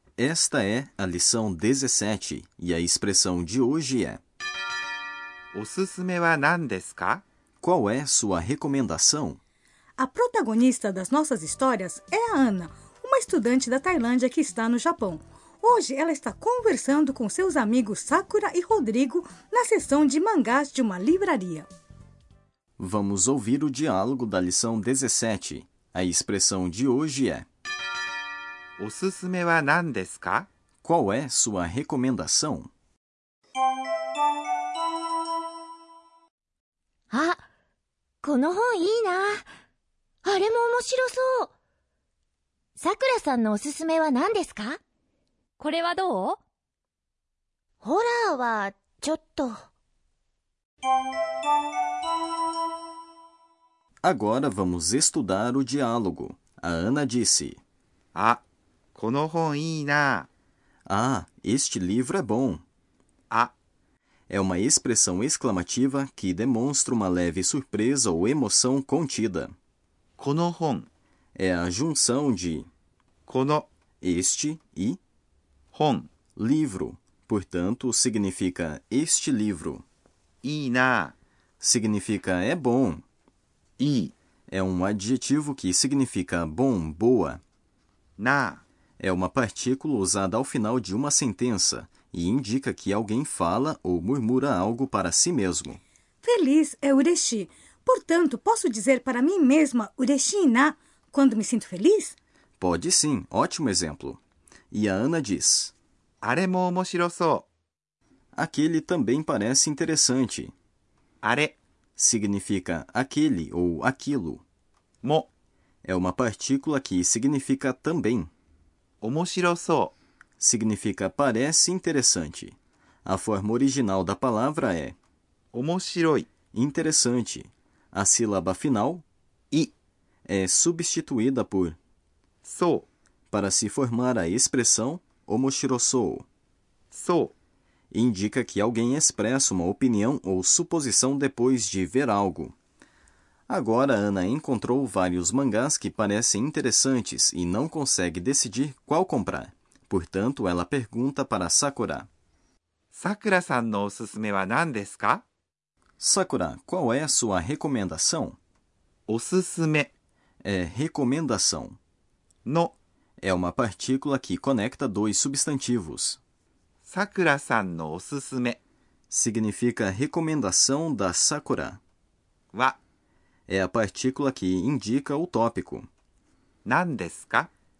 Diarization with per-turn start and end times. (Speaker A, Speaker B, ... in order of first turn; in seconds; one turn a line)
Speaker A: 0.2-4.2
Speaker B: 5.5-7.2
Speaker A: 7.6-9.4
Speaker C: 10.0-21.7
Speaker A: 22.8-27.5
Speaker B: 28.8-30.5
Speaker A: 30.8-32.7
Speaker D: 37.1-37.4
Speaker D: 38.2-39.4
Speaker D: 40.2-41.5
Speaker D: 42.8-44.8
Speaker D: 45.6-46.4
Speaker D: 47.8-49.6
Speaker A: 54.0-57.6
Speaker B: 58.1-58.4
Speaker B: 59.0-60.3
Speaker A: 60.9-62.6
Speaker A: 64.3-69.5
Speaker B: 70.2-70.9
Speaker A: 71.3-72.7
Speaker B: 73.3-73.7
Speaker A: 74.0-75.0
Speaker B: 75.7-76.1
Speaker A: 76.4-79.8
Speaker B: 80.4-81.2
Speaker A: 81.6-83.0
Speaker B: 83.8-84.1
Speaker A: 84.5-87.4
Speaker B: 88.2-88.6
Speaker A: 89.0-95.8
Speaker C: 96.2-102.2
Speaker A: 102.6-105.7
Speaker B: 106.2-107.5
Speaker A: 108.3-110.5
Speaker B: 111.2-111.6
Speaker A: 112.0-114.4
Speaker B: 115.0-115.3
Speaker A: 115.8-118.3
Speaker B: 119.0-120.0
Speaker A: 120.4-125.0
Speaker B: 125.5-126.3
Speaker A: 126.5-129.1
Speaker A: 130.3-131.8
Speaker B: 132.4-132.9
Speaker A: 133.3-136.3
Speaker B: 136.9-137.3
Speaker A: 137.9-142.6
Speaker A: 143.5-152.1
Speaker B: 152.9-155.2
Speaker A: 156.0-158.4
Speaker B: 159.1-159.9
Speaker A: 160.4-161.8
Speaker B: 162.4-162.8
Speaker A: 163.2-166.2
Speaker B: 166.8-168.6
Speaker A: 169.1-171.8
Speaker B: 172.5-172.8
Speaker A: 173.5-175.9
Speaker B: 176.7-177.5